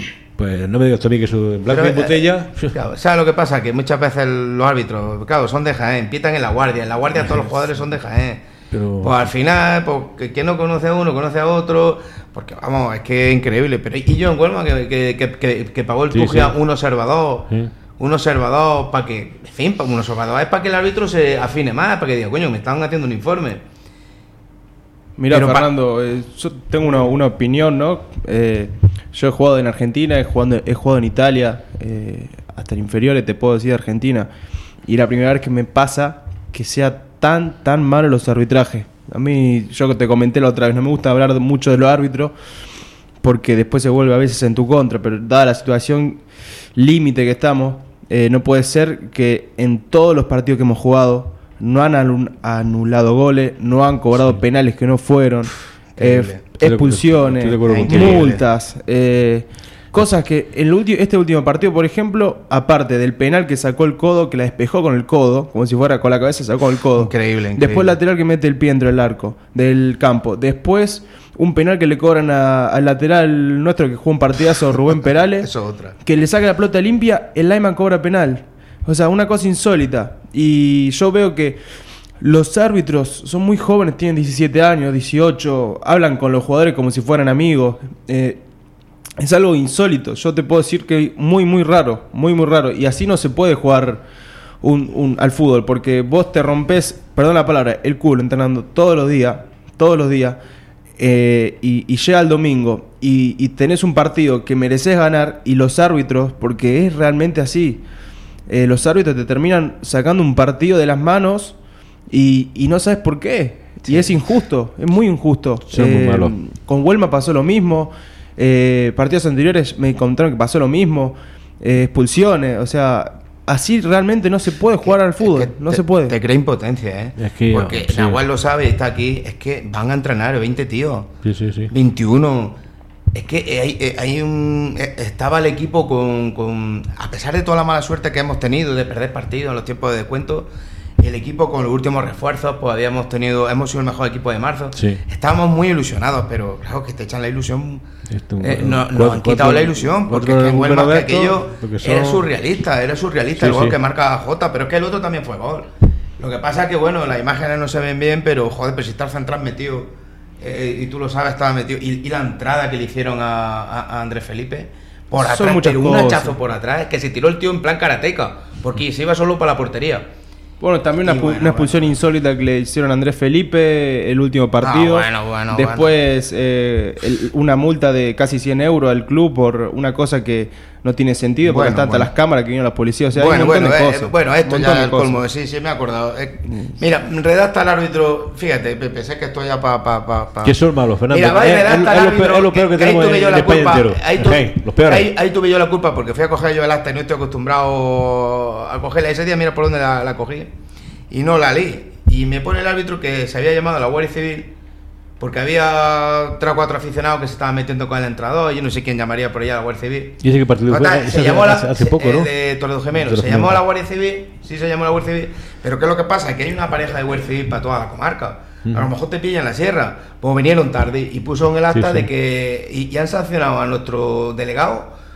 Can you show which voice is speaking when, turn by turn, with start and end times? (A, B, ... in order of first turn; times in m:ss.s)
0:00.4-0:02.8 A
0:01.7-0:08.4 B
0:07.2-0:07.5 A
0:08.7-0:09.3 A
0:09.0-0:23.6 B
0:16.1-0:16.6 A
0:25.2-0:34.3 C
0:25.3-0:25.7 B
0:34.8-0:42.3 C
0:43.2-0:46.2 C
0:46.7-1:15.5 C
0:56.0-0:58.3 A
0:56.0-0:56.4 B
0:57.7-0:58.4 B
1:07.0-1:08.0 B
1:15.4-1:16.0 B
1:16.0-1:21.6 C
1:22.2-1:28.4 C
1:29.2-1:34.0 C
1:34.6-1:40.4 C
1:41.0-1:47.8 C
1:48.5-1:51.6 C
1:52.1-2:06.2 C
1:55.7-1:56.4 A
2:04.8-2:11.1 B
2:07.2-2:08.2 A
2:11.2-2:11.7 A
2:11.7-2:12.6 B
2:13.1-2:27.8 B
2:24.7-2:25.0 A
2:28.1-2:32.2 A
2:28.4-2:50.1 B
2:33.4-2:33.8 A
2:45.2-2:46.3 C
2:50.6-3:05.2 C
2:51.0-2:51.9 B
2:54.6-2:55.9 B
3:01.4-3:02.1 B
3:03.1-3:10.6 B
3:06.5-3:06.7 C
3:10.4-3:15.1 A
3:11.1-3:20.5 B
3:21.1-3:24.5 B
3:25.2-3:44.9 B
3:30.2-3:32.3 A
3:32.9-3:33.6 A
3:41.7-3:42.1 A